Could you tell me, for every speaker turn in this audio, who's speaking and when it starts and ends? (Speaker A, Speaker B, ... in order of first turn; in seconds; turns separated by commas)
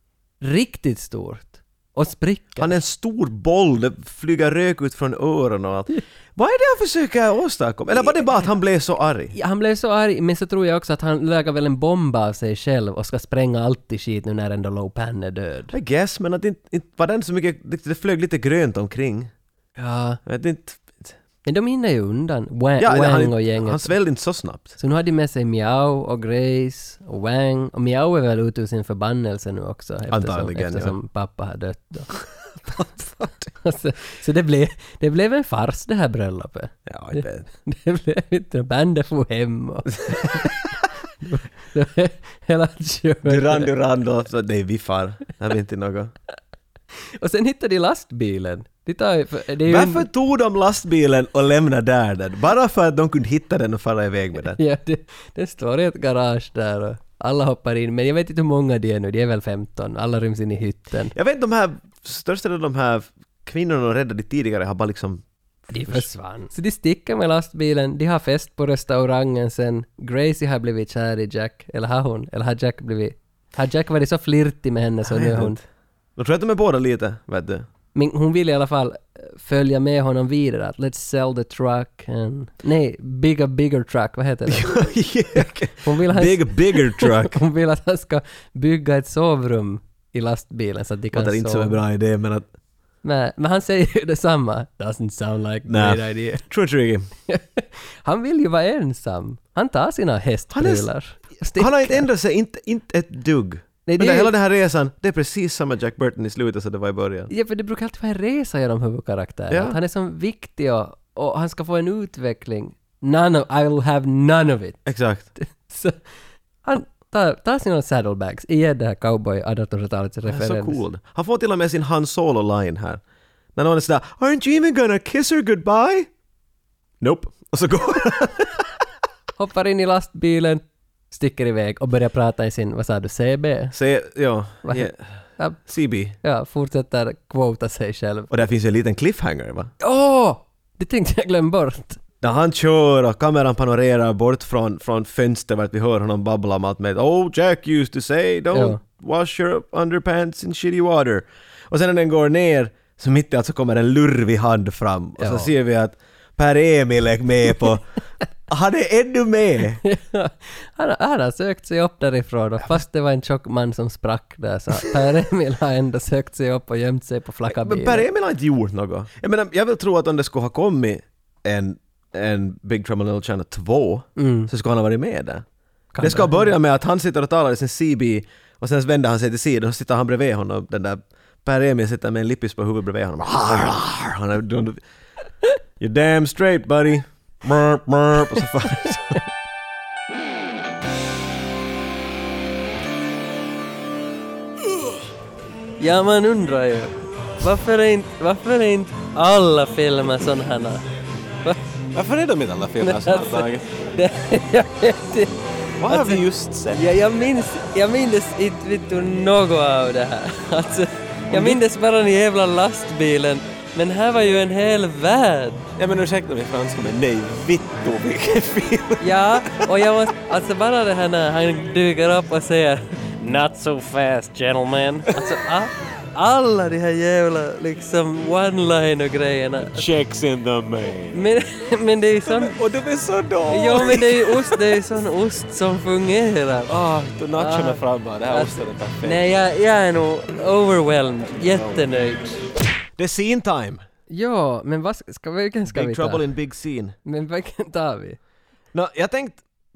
Speaker A: 0.4-2.8, Speaker B: 2.6-9.3, Speaker A: 9.3-15.7, Speaker B: 15.7-19.3, Speaker A: 19.8-20.2, Speaker B: 20.2-21.2, Speaker A: 21.4-23.9, Speaker B: 22.8-24.8, Speaker A: 24.8-32.2, Speaker B: 30.1-30.9, Speaker A: 32.8-40.7, Speaker B: 32.8-33.2, Speaker B: 36.9-37.5, Speaker A: 41.2-43.7, Speaker B: 43.2-46.1, Speaker A: 47.2-50.1, Speaker B: 49.6-54.6, Speaker A: 54.5-61.1, Speaker B: 61.1-66.1, Speaker A: 65.7-75.6, Speaker B: 75.1-75.6, Speaker B: 76.2-77.7, Speaker A: 77.9-91.8, Speaker B: 84.5-87.4, Speaker B: 91.1-92.5, Speaker A: 93.0-96.5, Speaker B: 95.7-97.1, Speaker A: 97.3-102.1, Speaker B: 100.5-100.9, Speaker B: 101.5-107.3, Speaker A: 103.8-104.3, Speaker A: 107.3-114.8, Speaker B: 109.5-109.8, Speaker B: 114.8-115.3, Speaker A: 115.4-115.9, Speaker A: 116.6-120.8, Speaker B: 120.3-123.0, Speaker B: 123.5-126.1, Speaker B: 127.0-128.6, Speaker A: 129.4-133.7, Speaker B: 133.7-135.0, Speaker A: 134.6-135.6, Speaker B: 135.6-136.2, Speaker A: 136.2-138.3, Speaker B: 138.3-139.7, Speaker A: 139.8-142.0, Speaker B: 142.2-157.9, Speaker A: 148.5-148.8, Speaker A: 155.2-155.5, Speaker B: 158.5-159.8, Speaker A: 159.8-168.1, Speaker B: 167.5-175.4, Speaker A: 174.2-174.5, Speaker A: 175.9-176.6, Speaker B: 176.0-184.8, Speaker B: 185.8-189.2, Speaker A: 195.8-200.8, Speaker B: 201.9-203.7, Speaker A: 202.8-205.3, Speaker B: 205.8-206.9, Speaker A: 205.9-215.7, Speaker B: 211.3-211.6, Speaker B: 215.8-219.6, Speaker A: 219.0-229.9, Speaker B: 229.6-231.2, Speaker A: 231.1-232.6, Speaker B: 232.2-234.8, Speaker A: 233.5-236.7, Speaker B: 236.7-239.3, Speaker A: 237.3-242.3, Speaker B: 241.5-241.8, Speaker B: 243.0-243.8, Speaker A: 244.1-246.2, Speaker B: 245.7-246.9, Speaker A: 247.0-248.2, Speaker B: 248.7-249.4